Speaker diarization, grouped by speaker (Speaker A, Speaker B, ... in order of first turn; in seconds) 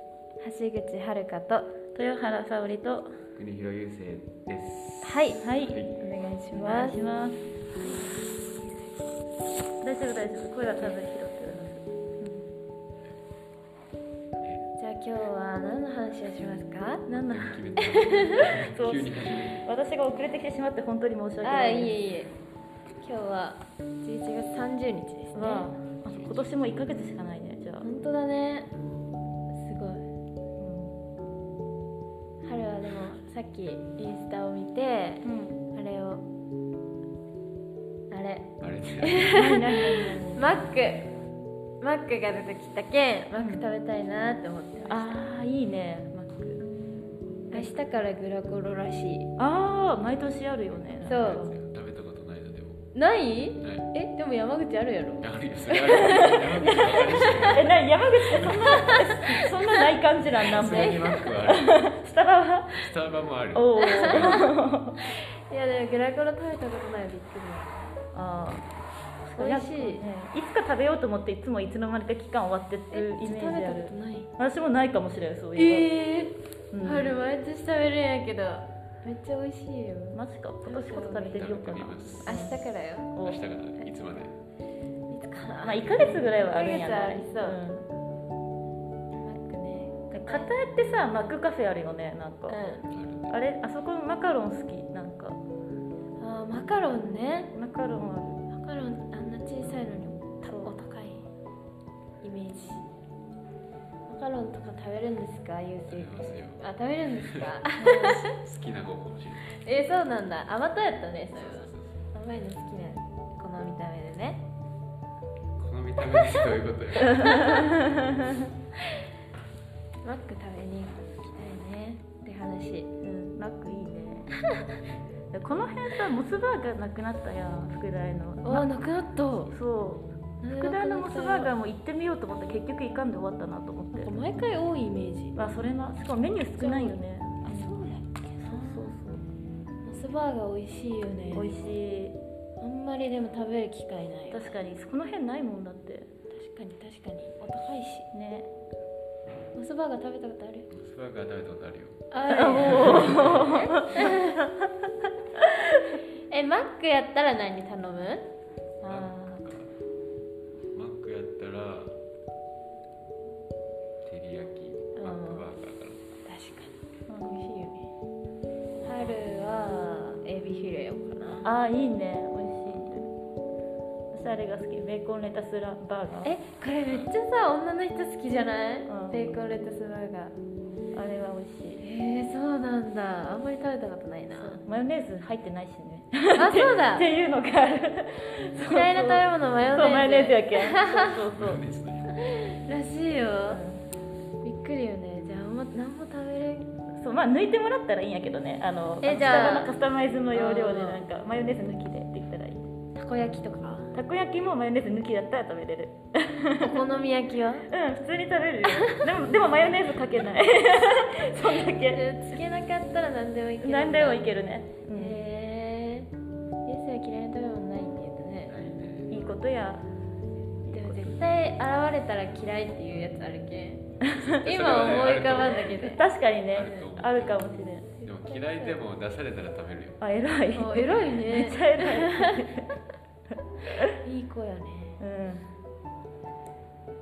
Speaker A: 0.4-1.7, 5.0-7.0, 7.8-9.0, 14.8-17.1, 17.8-18.5, 21.4-22.3, 23.0-25.7, 27.8-28.7, 29.5-30.1, 32.4-36.2, 38.1-41.1, 41.8-45.2, 47.5-49.3, 51.0-51.5, 52.9-57.6, 58.5-59.6, 60.6-61.2, 63.8-68.0, 69.3-70.0, 72.9-74.3, 75.5-81.6, 82.2-83.1, 85.1-87.6, 89.1-90.5, 92.5-92.8, 96.2-97.5, 98.5-101.3, 102.2-102.8, 104.1-108.3, 109.5-114.4, 116.1-116.5, 117.2-117.7, 120.0-123.3, 128.4-129.6, 130.4-131.5, 133.9-135.4, 136.6-138.9, 139.8-141.6, 142.6-144.6, 146.3-148.1, 149.5-150.7, 152.1-154.5, 156.3-158.3, 164.9-165.5, 166.2-167.9, 168.8-171.5, 176.2-180.3, 181.8-184.6, 186.3-187.1, 188.6-191.1, 192.1-193.6, 194.4-196.7, 199.0-199.8, 200.3-201.0, 202.9-203.9, 206.6-207.7, 208.7-209.0, 211.6-214.3, 214.9-216.1, 216.6-218.5, 220.7-223.8, 224.4-226.0, 226.6-226.9, 228.0-228.8, 230.5-232.5, 234.0-235.0
Speaker B: 1.9-3.1, 5.4-5.8, 6.5-7.4, 9.8-12.4, 17.1-17.6, 18.3-22.0, 25.3-27.9, 30.6-31.0, 35.2-35.6, 39.2-40.4, 43.4-43.6, 44.9-46.6, 49.4-51.5, 56.1-56.5, 57.2-62.9, 63.5-65.0, 68.1-68.7, 69.2-75.9, 76.7-77.1, 80.1-82.6, 83.1-83.4, 85.6-87.9, 90.1-92.8, 93.3-95.4, 97.5-98.4, 100.5-100.7, 107.8-108.2, 117.1-118.2, 123.2-124.3, 125.3-128.7, 129.5-134.1, 135.3-137.8, 138.4-139.2, 141.3-142.2, 144.3-146.1, 148.1-148.5, 152.2-154.7, 158.8-159.4, 167.1-167.5, 171.4-173.1, 174.1-176.3, 178.9-179.3, 180.9-181.8, 184.3-191.6, 193.5-193.8, 196.9-202.7, 203.9-206.9, 207.7-212.1, 213.6-215.2, 219.1-219.8, 220.6-221.3, 224.0-224.5, 225.8-227.9, 230.0-232.8, 233.6-233.9, 235.0-235.5
Speaker C: 3.4-6.0, 14.4-14.6, 17.1-19.6, 26.1-26.5, 38.6-39.3, 51.0-52.9, 53.6-53.9, 55.2-59.1, 60.3-61.9, 62.7-64.5, 81.3-84.3, 92.9-93.3, 105.9-109.5, 111.3-112.1, 115.6-117.6, 150.7-153.5, 158.8-159.7, 160.7-162.0, 164.0-166.0, 191.2-192.3, 218.5-219.2, 224.2-226.0, 226.5-230.0